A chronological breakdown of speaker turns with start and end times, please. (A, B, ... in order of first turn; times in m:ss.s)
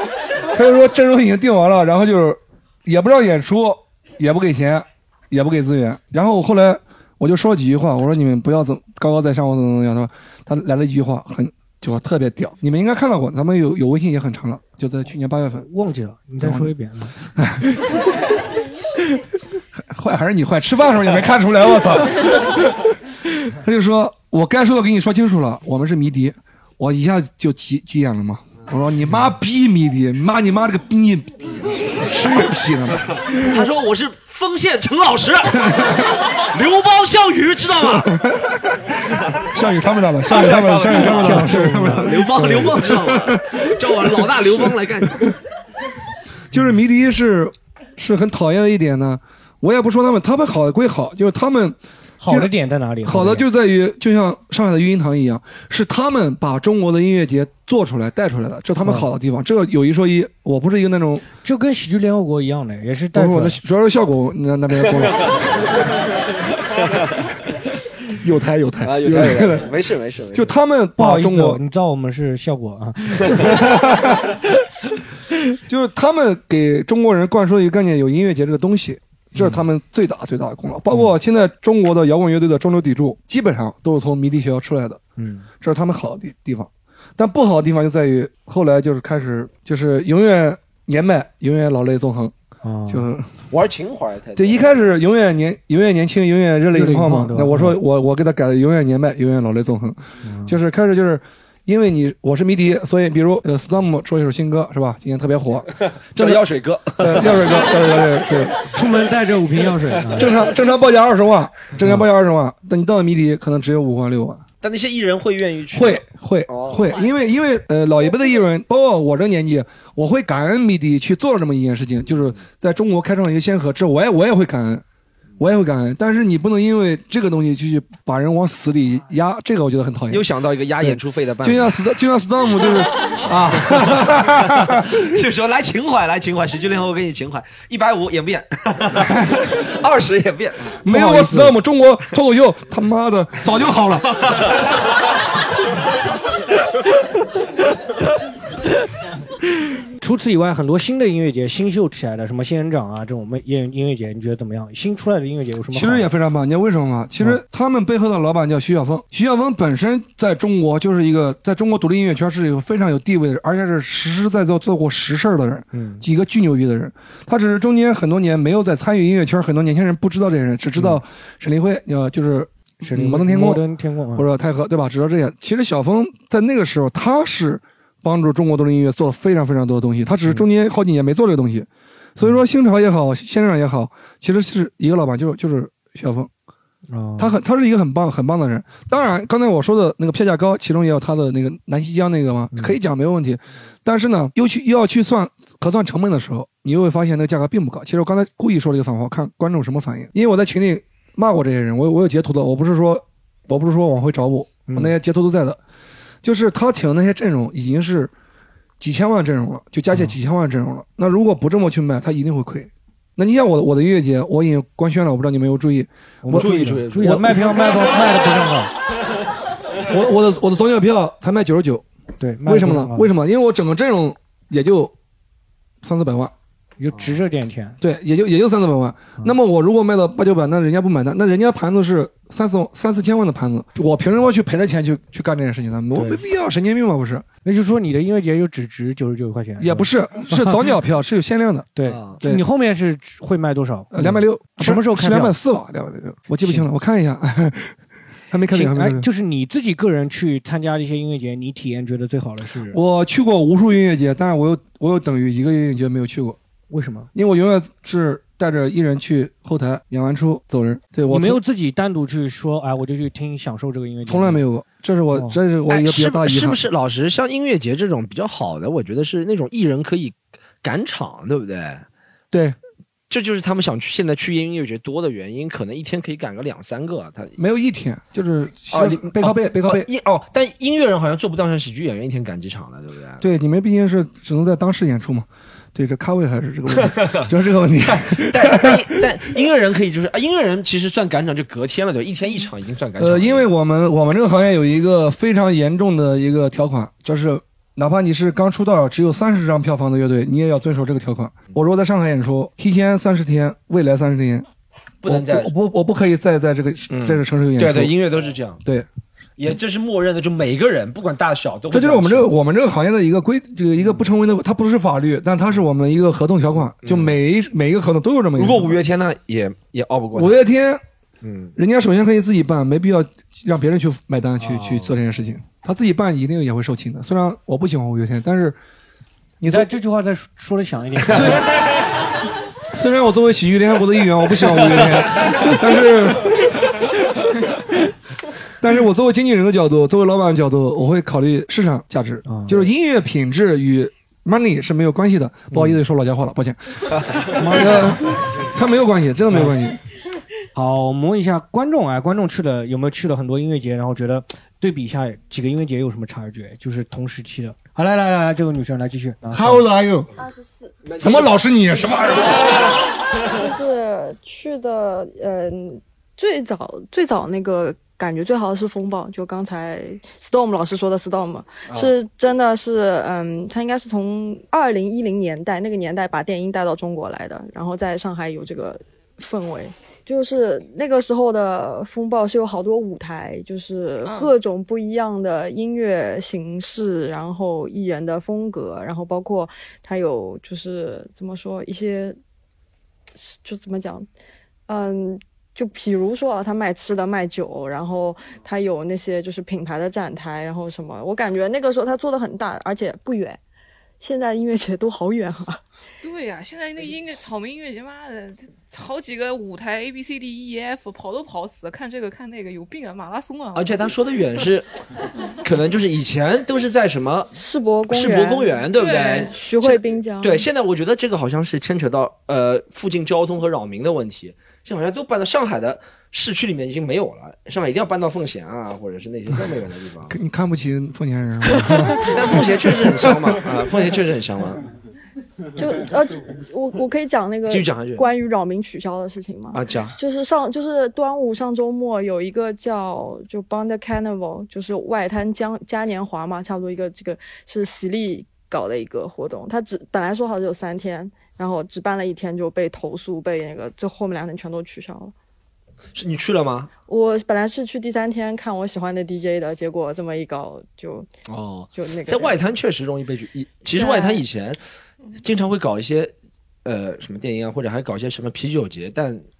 0:00.5-0:15.6 A
0:15.5-0:17.3 B
0:16.4-0:16.7 A
0:17.3-0:18.0 A
0:19.7-0:22.8 A
0:23.5-0:33.6 A
0:33.3-0:38.2 C
0:37.9-0:45.3 A
0:40.3-0:45.3 C
0:41.1-0:42.1 B
0:46.5-0:52.5 A
0:52.2-0:53.5 B
0:53.0-1:01.2 A
1:01.4-1:03.6 B
1:03.1-1:05.4 A
1:08.2-1:09.7 A
1:08.8-1:10.5 C
1:10.3-1:11.6 A
1:11.0-1:13.6 B
1:13.4-1:14.3 A
1:15.7-1:25.0 A
1:19.4-1:19.6 B
1:25.2-1:25.5 B
1:25.6-1:32.3 A
1:32.6-1:33.0 B
1:32.9-1:33.3 A
1:33.5-1:34.8 C
1:34.4-1:48.6 A
1:36.7-1:37.8 B
1:40.2-1:40.6 B
1:46.1-1:48.0 C
1:48.7-1:50.3 B
1:50.1-1:54.4 A
1:54.6-1:56.9 C
1:55.7-2:04.8 A
2:05.4-2:10.2 A
2:10.1-2:11.8 C
2:10.8-2:14.8 A
2:14.5-2:20.8 C
2:19.0-2:19.4 A
2:20.8-2:24.3 A
2:20.9-2:21.6 B
2:30.0-2:36.1 B
2:35.7-2:53.6 A
2:45.7-2:46.0 B
2:52.8-2:54.3 B
2:54.1-3:06.3 A
3:06.9-3:07.4 B
3:07.2-3:25.6 A
3:24.7-3:24.9 B
3:26.2-3:28.1 A
3:28.8-3:37.8 A
3:36.2-3:38.7 B
3:36.3-3:37.6 C
3:39.9-3:41.8 A
3:42.2-3:43.1 B
3:42.4-3:44.9 A
3:45.8-3:46.3 A
3:46.8-3:47.8 B
3:47.8-3:57.2 A
3:57.4-4:00.7 B
3:59.6-4:01.7 A
4:01.8-4:05.4 B
4:01.8-4:02.2 C
4:03.9-4:07.7 A
4:06.4-4:06.7 B
4:08.3-4:09.1 A
4:08.5-4:12.8 B
4:12.7-4:16.4 A
4:16.7-4:17.1 B
4:17.1-4:21.4 A
4:21.1-4:24.4 B
4:24.0-4:26.6 A
4:25.1-4:25.4 B
4:25.7-4:31.8 C
4:32.3-4:32.6 A
4:33.1-4:37.4 C
4:37.4-4:39.9 A
4:38.7-4:43.2 C
4:43.2-4:49.0 A
4:46.8-4:47.2 C
4:48.1-4:53.5 C
4:53.0-5:04.4 A
5:05.0-5:05.5 C
5:05.0-5:07.9 A
5:06.9-5:08.6 C
5:09.4-5:12.3 C
5:11.7-5:18.8 A
5:16.8-5:17.2 C
5:18.4-5:20.4 C
5:20.1-5:20.8 A
5:21.2-5:21.5 C
5:21.6-5:28.6 A
5:29.4-5:29.7 A
5:29.5-5:31.5 B
5:31.1-5:31.6 A
5:32.7-5:36.6 A
5:38.6-5:49.8 A
5:42.3-5:42.6 B
5:45.5-5:45.8 B
5:47.4-5:48.0 B
5:50.5-5:59.6 B
5:59.3-6:00.1 A
6:00.2-6:00.7 D
6:00.9-6:01.3 C
6:01.0-6:02.7 A
6:03.3-6:32.2 D
6:24.0-6:24.3 E
6:33.1-6:34.1 D
6:34.7-6:43.4 D
6:44.0-6:45.6 D
6:46.0-6:53.9 E
6:53.5-6:54.7 C
6:55.4-6:57.3 C
6:57.3-7:00.4 D
6:57.9-6:59.3 C
6:58.7-6:59.8 E
7:00.2-7:10.1 C
7:10.1-7:13.3 A
7:11.9-7:14.6 C
7:15.6-7:35.1 D
7:17.5-7:18.1 C
7:19.5-7:20.0 C
7:35.9-7:36.7 C
7:36.9-7:41.1 D
7:41.3-7:44.6 C
7:41.7-7:42.4 D
7:43.7-7:44.2 D
7:45.2-7:46.1 C
7:46.6-7:49.2 C